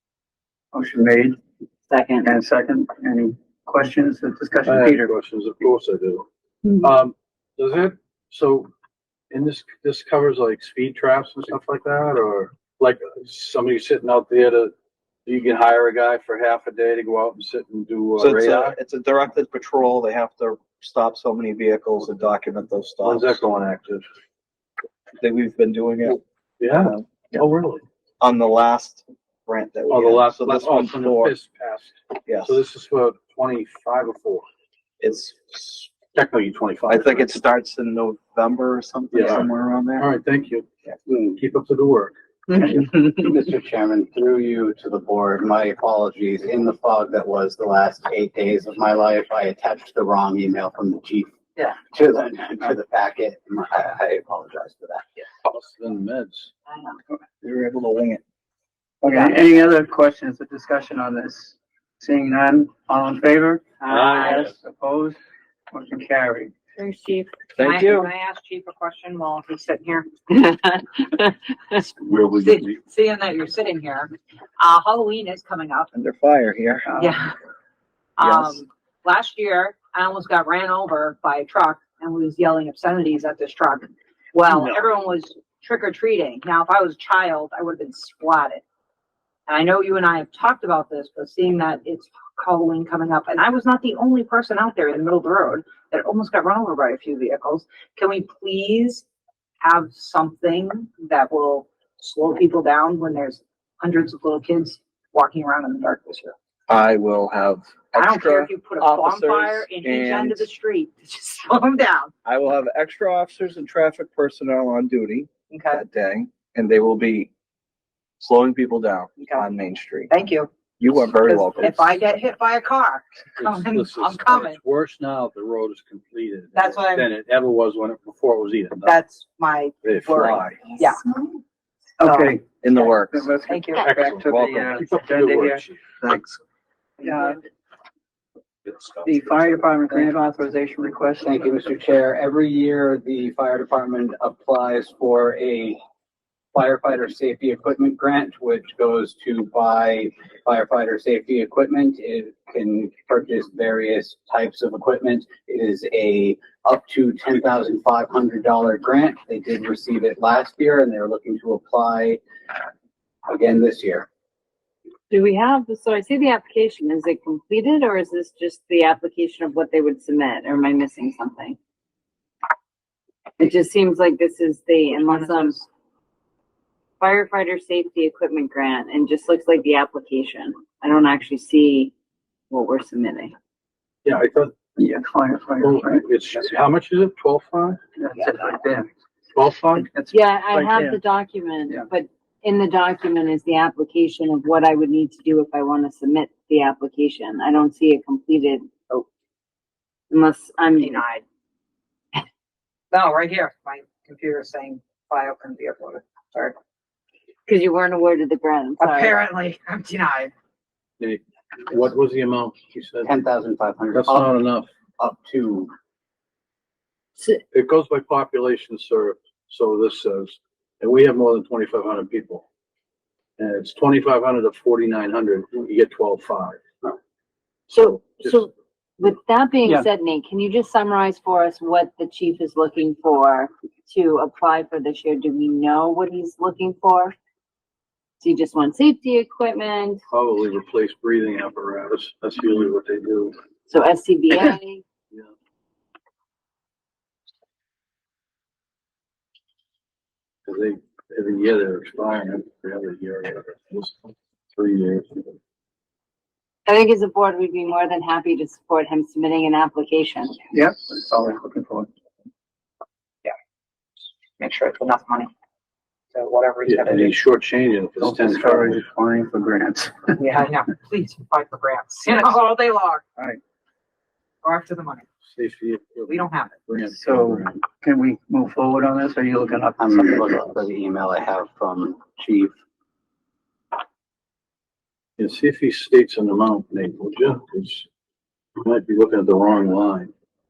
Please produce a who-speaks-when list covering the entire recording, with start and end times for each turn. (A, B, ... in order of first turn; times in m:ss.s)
0:00.7-0:01.4 A
0:01.9-0:02.3 B
0:02.2-0:05.1 A
0:04.7-0:06.3 C
0:06.8-0:08.7 C
0:09.3-0:14.7 C
0:15.3-0:18.8 C
0:18.2-0:23.4 D
0:23.0-0:24.0 C
0:25.2-0:26.2 D
0:26.6-0:27.8 C
0:26.7-0:27.1 D
0:28.2-0:31.4 D
0:29.9-0:34.4 C
0:32.3-0:32.6 D
0:35.0-0:35.9 D
0:36.1-0:37.3 C
0:36.9-0:40.1 D
0:39.1-0:40.7 C
0:41.3-0:42.1 C
0:42.5-0:55.1 E
0:55.4-0:56.5 C
0:57.4-0:58.2 D
0:59.0-1:05.2 A
0:59.1-0:59.4 F
1:03.8-1:04.4 F
1:03.8-1:04.3 C
1:05.7-1:06.5 A
1:06.8-1:07.3 B
1:07.6-1:08.1 D
1:07.6-1:10.1 F
1:10.3-1:11.9 B
1:12.0-1:12.7 D
1:12.3-1:15.9 F
1:15.9-1:16.9 D
1:16.9-1:17.2 A
1:17.0-1:17.4 F
1:18.2-1:28.6 F
1:18.2-1:18.6 D
1:29.5-1:39.0 F
1:39.6-1:46.4 F
1:46.7-1:50.5 D
1:48.0-1:52.1 F
1:52.2-1:57.3 D
1:55.5-1:55.8 F
1:58.2-2:00.1 D
1:59.2-1:59.5 F
2:00.1-2:00.5 F
2:00.8-2:02.0 D
2:01.2-2:04.6 F
2:03.4-2:09.0 C
2:06.5-2:07.1 F
2:08.8-2:11.4 F
2:09.8-2:10.4 C
2:10.1-2:10.6 D
2:12.0-2:15.7 A
2:12.0-2:12.4 F
2:12.6-2:13.4 D
2:13.4-2:13.8 F
2:13.8-2:15.9 C
2:14.3-2:14.8 D
2:15.9-2:16.4 D
2:17.0-2:17.4 A
2:18.7-2:19.2 D
2:19.0-2:21.4 A
2:21.2-2:25.8 E
2:26.5-2:42.2 E
2:43.3-2:44.1 E
2:45.1-2:51.6 B
2:53.4-2:55.6 B
2:55.0-2:55.6 F
2:57.0-3:01.9 B
3:02.5-3:03.3 B
3:04.0-3:04.6 C
3:04.8-3:06.1 A
3:05.6-3:07.8 C
3:08.0-3:08.9 A
3:09.4-3:09.9 C
3:09.8-3:11.0 A
3:10.1-3:19.0 B
3:20.1-3:21.0 B
3:20.8-3:21.2 F
3:22.9-3:26.6 F
3:27.5-3:29.3 B
3:28.8-3:30.3 F
3:31.0-3:33.1 C
3:33.0-3:34.4 E
3:33.9-3:34.7 C
3:35.0-3:35.7 E
3:37.5-3:42.4 C
3:43.4-3:46.9 C
3:47.7-3:48.5 C
3:47.7-3:57.2 B
3:58.2-4:00.0 B
4:00.1-4:03.4 C
4:03.7-4:04.8 B
4:10.5-4:15.4 C
4:16.7-4:20.4 B
4:20.5-4:21.9 A
4:24.4-4:25.3 F
4:26.1-4:27.2 F
4:26.6-4:28.8 C
4:28.0-4:30.2 A
4:30.2-4:33.0 F
4:34.4-4:35.0 F
4:35.2-4:37.6 C
4:36.1-4:36.6 F
4:36.9-4:40.3 A
4:39.8-4:42.5 E
4:45.2-4:47.9 C
4:48.6-4:50.1 C